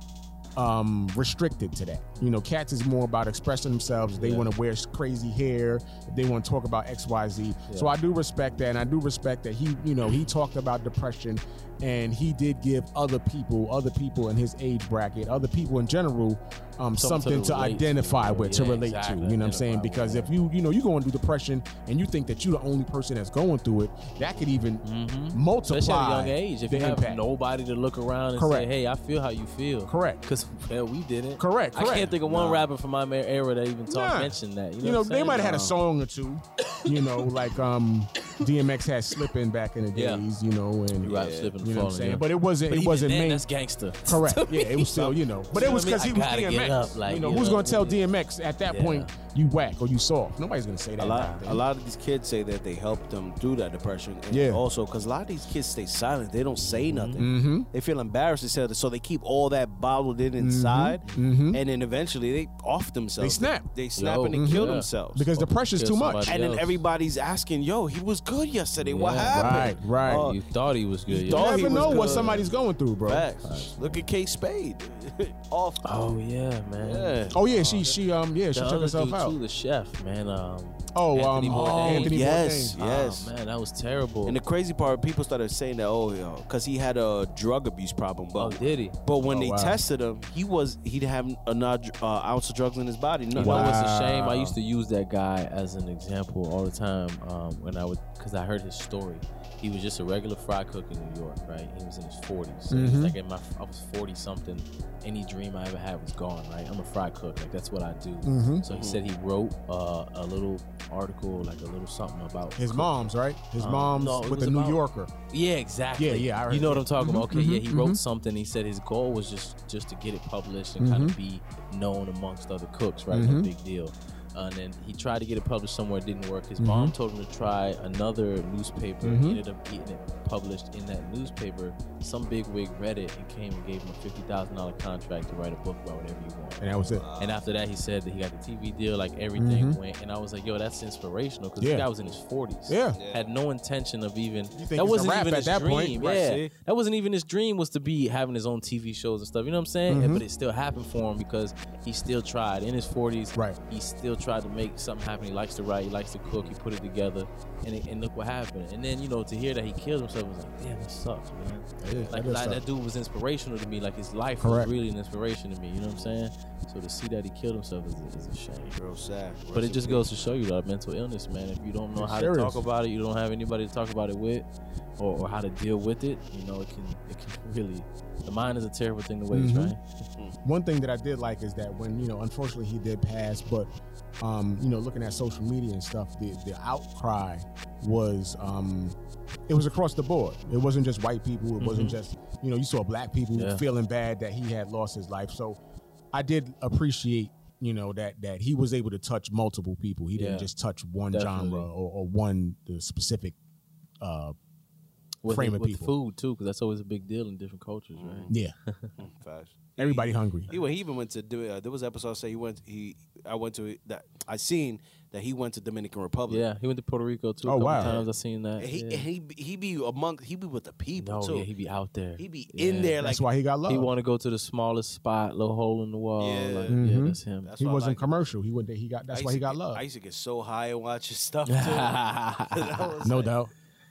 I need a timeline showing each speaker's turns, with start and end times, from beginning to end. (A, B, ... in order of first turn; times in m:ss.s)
0:00.6-0:27.2 A
0:04.1-0:04.5 B
0:07.7-0:07.9 B
0:17.0-0:20.3 B
0:24.8-0:35.8 B
0:28.4-0:28.7 A
0:29.9-0:30.2 A
0:31.4-0:32.7 A
0:33.9-0:43.4 A
0:39.9-0:40.2 B
0:41.0-0:48.0 B
0:41.1-0:41.5 C
0:44.0-0:51.6 A
0:48.7-0:49.1 B
0:51.0-1:05.3 C
0:51.0-0:51.5 B
0:54.3-0:54.6 A
0:56.6-0:57.2 B
0:57.2-0:57.7 A
1:00.4-1:01.6 A
1:03.2-1:03.7 A
1:04.0-1:06.8 B
1:04.3-1:06.2 A
1:06.2-1:10.4 C
1:08.8-1:12.5 B
1:09.3-1:10.2 A
1:11.1-1:12.4 C
1:11.3-1:13.3 A
1:13.0-1:15.8 C
1:13.4-1:14.0 B
1:15.8-1:17.3 B
1:16.8-1:18.0 C
1:17.3-1:19.4 A
1:18.5-1:22.2 B
1:20.9-1:22.8 A
1:21.5-1:23.3 C
1:22.8-1:24.4 B
1:24.2-1:33.7 C
1:28.4-1:29.0 B
1:29.3-1:29.8 A
1:33.3-1:34.6 A
1:33.4-1:54.8 B
1:42.7-1:43.1 A
1:48.2-1:48.6 A
1:48.7-1:49.0 C
1:52.6-1:55.1 A
1:55.3-2:48.8 B
1:56.0-1:58.0 A
2:00.8-2:01.2 A
2:03.1-2:03.5 A
2:06.6-2:06.9 A
2:09.0-2:09.4 A
2:16.6-2:17.0 A
2:17.0-2:17.4 C
2:19.4-2:19.8 A
2:21.6-2:21.9 A
2:22.7-2:23.0 A
2:22.9-2:23.3 C
2:24.6-2:26.0 A
2:26.0-2:26.5 C
2:29.9-2:30.2 A
2:36.2-2:36.5 C
2:41.8-2:42.6 A
2:41.9-2:42.1 C
2:44.4-2:44.7 A
2:48.8-2:50.3 C
2:49.5-2:54.5 B
2:51.9-2:52.6 A
2:55.0-2:59.8 B
2:59.3-2:59.7 A
3:00.4-3:09.0 A
3:09.5-3:15.6 A
3:11.6-3:12.0 B
3:13.4-3:13.6 B
3:16.1-3:23.3 A
3:20.1-3:20.5 B
3:21.1-3:21.7 B
3:24.0-3:24.4 A
3:25.2-3:28.9 B
3:25.3-3:25.9 A
3:28.0-3:28.3 C
3:28.3-3:28.5 A
3:29.0-3:36.4 C
3:29.8-3:30.5 A
3:36.3-3:39.0 B
3:37.4-3:38.0 A
3:37.8-3:38.1 C
3:38.6-3:41.5 C
3:41.0-3:43.1 B
3:42.2-3:43.2 C
3:43.0-3:43.9 A
3:43.7-3:47.5 B
3:46.2-3:46.8 C
3:46.7-3:49.8 A
3:47.4-3:48.2 C
3:49.1-3:51.9 C
3:51.5-3:52.8 B
3:52.5-3:53.3 C
3:53.0-3:53.5 A